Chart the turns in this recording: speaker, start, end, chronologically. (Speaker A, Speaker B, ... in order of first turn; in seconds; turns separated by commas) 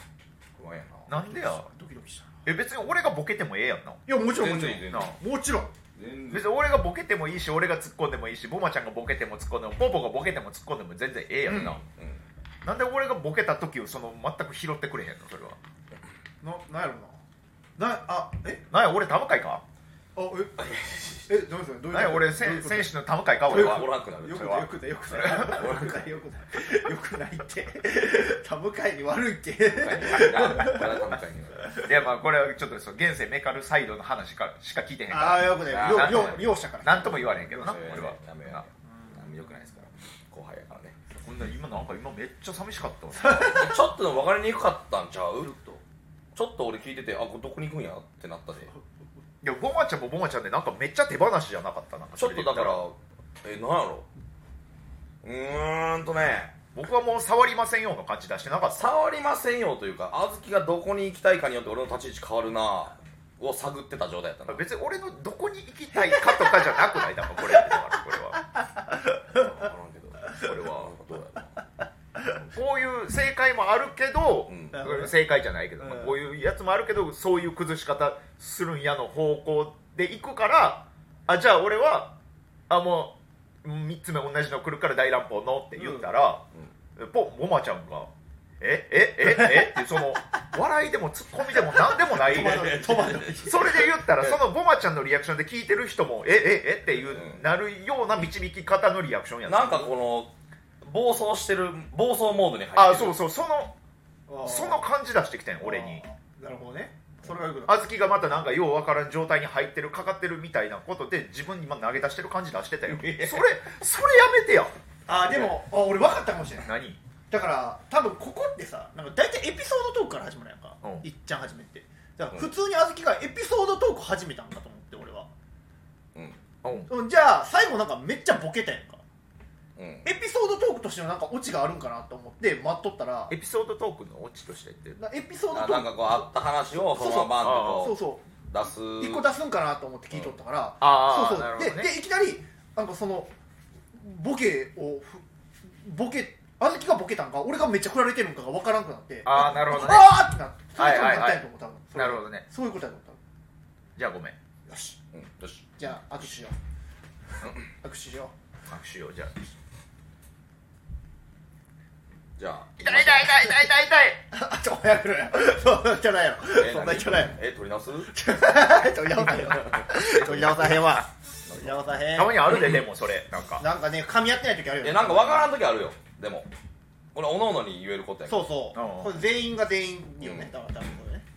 Speaker A: 0.6-1.1, Speaker B: 1.1-1.7, Speaker C: 1.1-2.4, Speaker B: 2.5-4.0, Speaker C: 4.1-5.7, Speaker A: 4.3-5.2, Speaker B: 4.9-5.2, Speaker A: 6.0-6.5, Speaker B: 6.3-11.8, Speaker A: 11.5-12.2, Speaker B: 12.6-15.6, Speaker C: 16.4-17.2, Speaker C: 17.8-18.6, Speaker B: 18.7-19.6, Speaker C: 20.1-20.6, Speaker A: 20.6-21.4, Speaker C: 21.3-23.0, Speaker B: 21.9-25.6, Speaker A: 23.4-24.6, Speaker C: 23.5-31.8, Speaker A: 25.2-26.0, Speaker A: 29.7-31.8, Speaker B: 31.8-38.7, Speaker C: 35.1-38.1, Speaker A: 35.7-36.5, Speaker A: 37.0-41.0, Speaker B: 41.2-43.7, Speaker C: 43.2-43.6, Speaker A: 43.3-45.5, Speaker C: 45.5-45.8, Speaker A: 46.4-48.7, Speaker B: 49.4-52.8, Speaker A: 52.2-54.1, Speaker A: 55.2-56.5, Speaker B: 56.8-58.9, Speaker A: 58.7-64.7, Speaker B: 64.5-68.5, Speaker A: 69.3-71.6, Speaker B: 70.4-71.0, Speaker B: 72.5-82.2, Speaker A: 74.5-74.9, Speaker C: 74.7-75.1, Speaker B: 82.7-92.8, Speaker C: 92.0-93.8, Speaker A: 92.2-94.4, Speaker B: 93.5-99.9, Speaker A: 97.1-97.4, Speaker A: 99.5-103.2, Speaker B: 102.8-103.8, Speaker C: 104.3-104.9, Speaker B: 104.4-106.0, Speaker C: 105.6-107.9, Speaker B: 107.7-114.8, Speaker A: 112.9-113.5, Speaker C: 115.1-116.7, Speaker B: 116.7-117.0, Speaker C: 117.3-125.3, Speaker A: 126.2-126.4, Speaker B: 126.6-126.9, Speaker C: 126.9-129.0, Speaker A: 129.8-130.1, Speaker C: 130.0-133.3, Speaker B: 133.3-135.0, Speaker C: 135.0-136.3, Speaker A: 135.5-139.3, Speaker C: 136.9-138.3, Speaker B: 137.3-137.9, Speaker C: 139.0-143.3, Speaker B: 140.8-141.9, Speaker C: 143.9-153.2, Speaker B: 149.2-150.2, Speaker B: 150.8-152.4, Speaker B: 154.0-154.4, Speaker C: 154.7-155.0, Speaker A: 155.1-155.7, Speaker C: 155.8-156.6, Speaker A: 157.4-157.7, Speaker C: 157.8-158.3, Speaker B: 158.7-159.3, Speaker A: 162.4-163.5, Speaker B: 162.8-164.2, Speaker C: 164.3-167.4, Speaker A: 166.5-168.1, Speaker C: 168.1-172.5, Speaker A: 169.5-169.8, Speaker B: 170.0-171.0, Speaker A: 171.5-171.9, Speaker B: 172.1-173.7, Speaker C: 173.6-175.5, Speaker A: 174.8-176.5, Speaker A: 177.1-178.5, Speaker C: 178.3-181.2, Speaker B: 178.8-179.2, Speaker A: 180.2-180.5